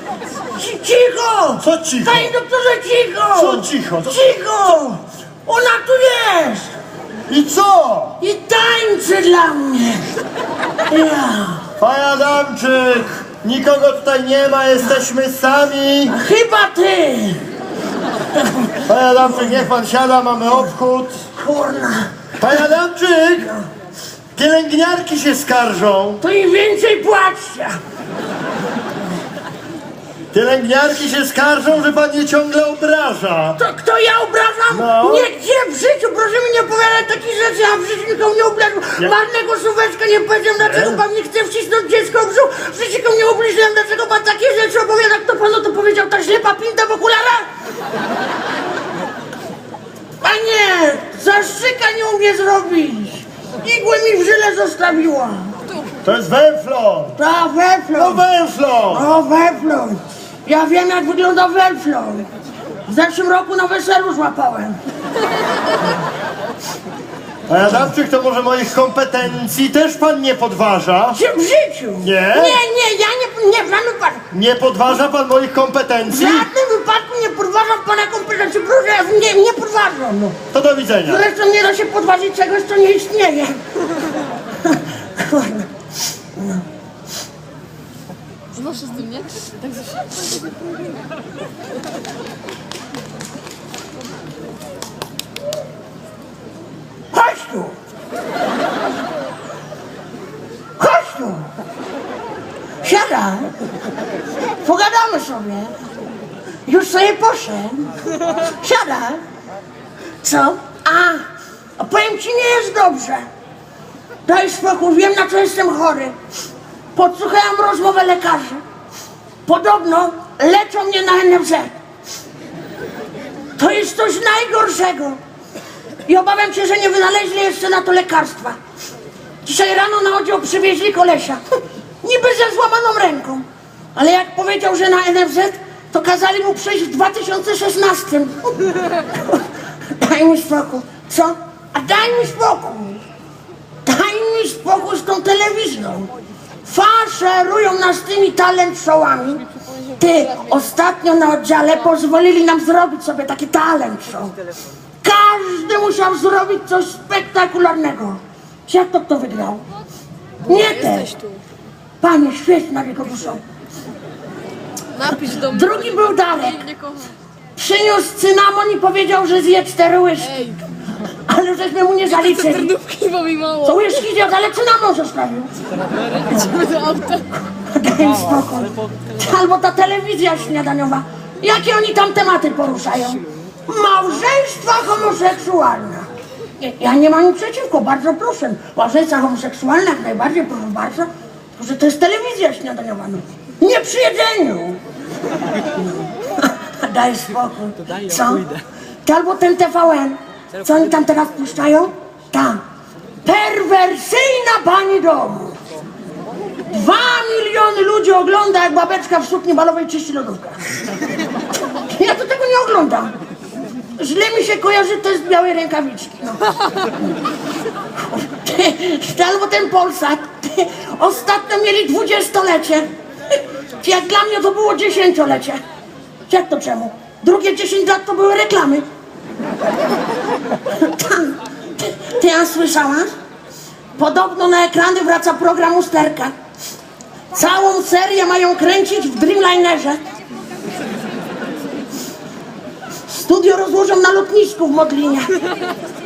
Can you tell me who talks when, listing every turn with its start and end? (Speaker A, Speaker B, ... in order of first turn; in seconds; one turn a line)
Speaker A: 0.5-6.7
Speaker B: 1.6-2.3
Speaker B: 3.3-4.2
Speaker B: 7.3-8.2
Speaker A: 8.2-10.1
Speaker A: 10.9-11.7
Speaker B: 11.8-16.2
Speaker A: 16.1-17.4
Speaker A: 18.4-19.6
Speaker B: 18.9-21.2
Speaker A: 21.3-22.3
Speaker B: 22.4-23.5
Speaker B: 24.4-26.2
Speaker A: 26.2-27.8
Speaker B: 30.3-33.6
Speaker A: 33.6-47.5
Speaker B: 34.7-35.3
Speaker B: 40.6-41.0
Speaker A: 50.2-55.6
Speaker B: 56.0-57.2
Speaker A: 57.2-58.2
Speaker B: 57.9-59.0
Speaker A: 58.9-62.3
Speaker A: 62.9-64.8
Speaker B: 67.5-71.2
Speaker A: 71.1-74.2
Speaker B: 72.0-72.6
Speaker B: 74.3-76.5
Speaker A: 76.1-80.4
Speaker B: 80.5-81.2
Speaker A: 81.0-83.6
Speaker A: 84.6-85.7
Speaker A: 86.3-86.7
Speaker C: 88.5-90.1
Speaker A: 97.1-97.8
Speaker A: 100.8-101.5
Speaker A: 102.8-103.6
Speaker A: 104.6-105.7
Speaker A: 106.7-109.2
Speaker A: 110.2-111.2
Speaker A: 111.8-113.3
Speaker A: 114.3-116.2
Speaker A: 116.9-118.6
Speaker A: 119.5-121.7
Speaker A: 123.6-125.2
Speaker A: 126.1-128.6
Speaker A: 129.4-131.4
Speaker A: 132.0-139.4
Speaker A: 140.0-143.0
Speaker A: 143.8-146.1
Speaker A: 146.7-154.3
Speaker A: 155.0-159.7
Speaker A: 160.4-161.1
Speaker C: 160.9-161.4
Speaker A: 162.0-163.4
Speaker C: 165.0-165.5
Speaker A: 165.1-166.7
Speaker C: 166.7-167.1
Speaker A: 167.6-170.5
Speaker A: 171.3-172.8
Speaker C: 172.4-173.7
Speaker A: 173.6-175.5
Speaker C: 176.3-177.3
Speaker A: 177.5-194.8
Speaker A: 196.3-198.5
Speaker A: 199.1-202.6
Speaker A: 203.2-205.6
Speaker A: 206.7-210.7
Speaker A: 211.7-213.2
Speaker A: 214.0-216.5
Speaker A: 218.0-225.6
Speaker A: 226.3-228.9
Speaker A: 230.7-233.1
Speaker A: 234.0-236.3
Speaker A: 237.3-240.0
Speaker A: 243.1-245.3